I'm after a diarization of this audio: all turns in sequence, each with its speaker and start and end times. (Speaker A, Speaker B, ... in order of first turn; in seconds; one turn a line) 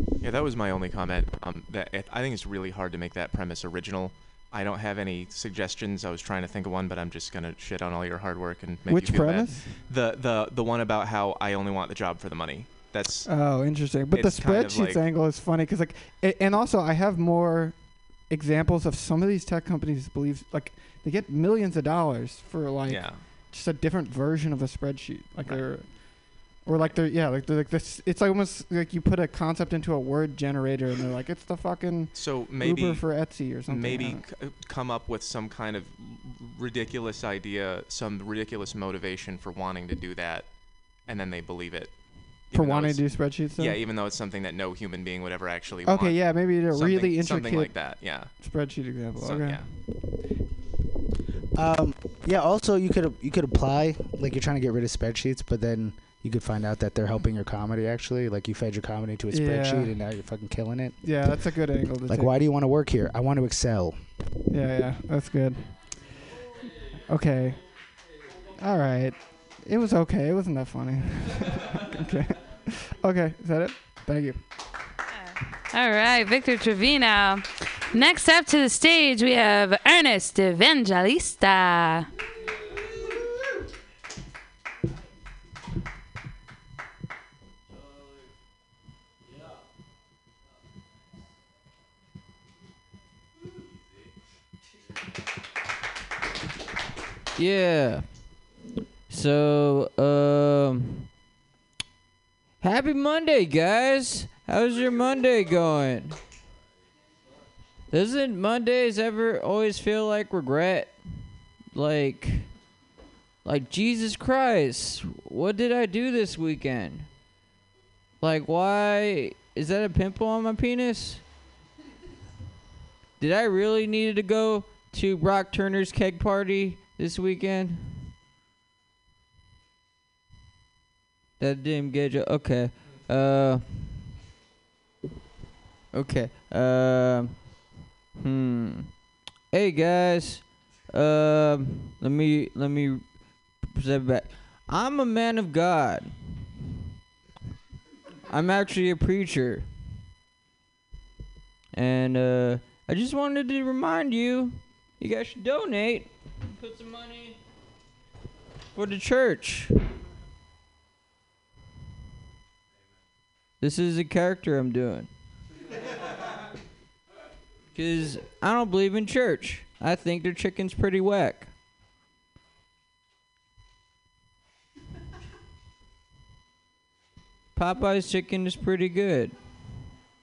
Speaker A: 0.2-15.0
Speaker B: 8.8-9.7
Speaker B: 13.2-34.2
Speaker A: 22.9-23.2
Speaker A: 25.4-26.2
Speaker A: 32.1-49.7
Speaker B: 42.5-43.8
Speaker B: 45.9-49.8
Speaker C: 51.5-61.2
Speaker B: 59.3-60.0
Speaker B: 61.0-62.4
Speaker C: 62.1-64.0
Speaker B: 64.5-66.1
Speaker B: 67.0-67.6
Speaker B: 68.6-74.4
Speaker D: 75.7-82.1
Speaker E: 97.3-98.5
Speaker E: 99.1-101.1
Speaker E: 102.6-106.2
Speaker E: 107.9-112.7
Speaker E: 113.4-117.1
Speaker E: 118.2-121.2
Speaker E: 123.2-128.1
Speaker E: 131.4-133.9
Speaker E: 135.9-146.5
Speaker E: 148.3-149.7
Speaker E: 151.7-157.3
Speaker E: 158.7-159.7
Speaker E: 163.6-165.1
Speaker E: 167.7-171.5
Speaker E: 177.5-179.4